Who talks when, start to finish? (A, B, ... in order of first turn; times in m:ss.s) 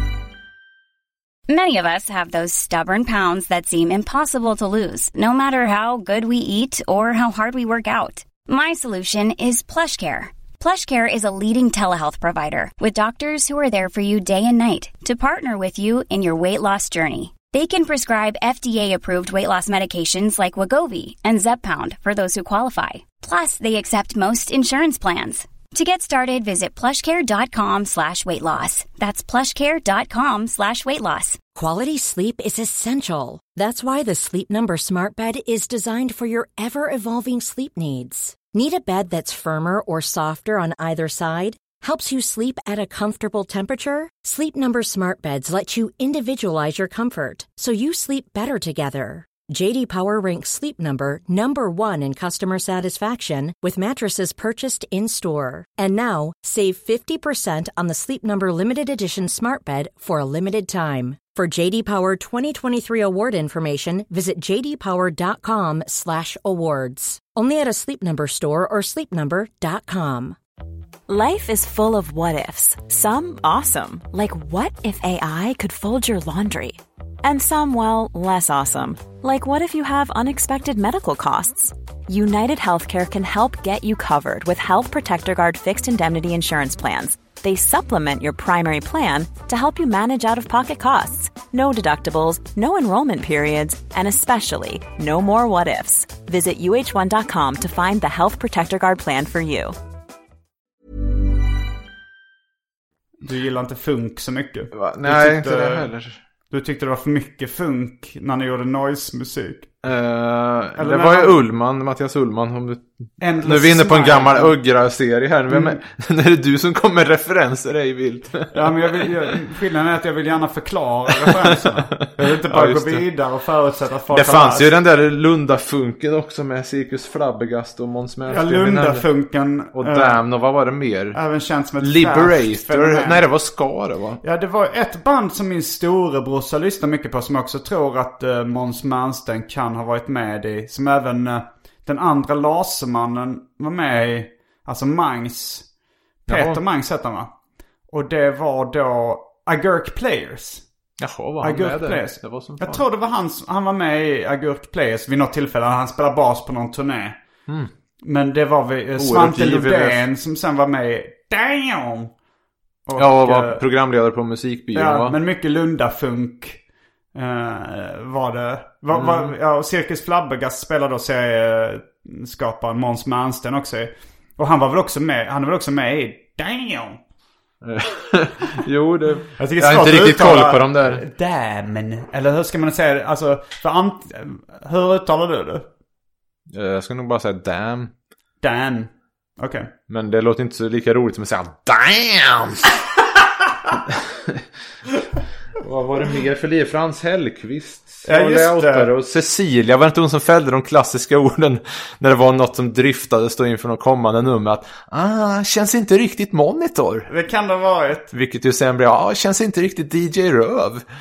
0:01.5-0:31.4 A
0:31.6-1:10.4 B
1:11.1-1:39.8 C
1:43.2-1:45.9 D
1:44.7-1:46.2 E
1:46.5-1:49.7 D
1:49.8-1:59.1 E
1:50.8-1:51.4 D
1:53.2-1:54.6 D
1:55.5-1:55.8 D
1:58.5-2:04.7 D
2:02.0-2:03.0 E
2:04.1-2:09.1 E
2:08.3-2:10.2 D
2:09.7-2:11.2 E
2:11.1-2:13.2 D
2:11.8-2:14.2 E
2:14.2-2:25.7 D
2:26.3-2:26.6 E
2:26.3-2:27.3 D
2:27.9-2:30.6 D
2:31.0-2:32.8 E
2:31.4-2:37.2 D
2:38.0-2:42.1 D
2:39.0-2:40.0 E
2:42.9-2:43.6 D
2:43.0-2:45.2 E
2:44.7-2:46.6 D
2:47.2-2:57.0 D
2:48.9-2:49.4 E
2:57.6-3:01.0 E
2:59.4-3:05.7 D
3:06.5-3:07.9 E
3:08.4-3:09.7 D
3:09.9-3:12.8 E
3:13.7-3:14.4 E
3:15.6-3:27.1 E
3:18.0-3:18.9 D
3:27.1-3:28.1 D
3:28.1-3:30.8 E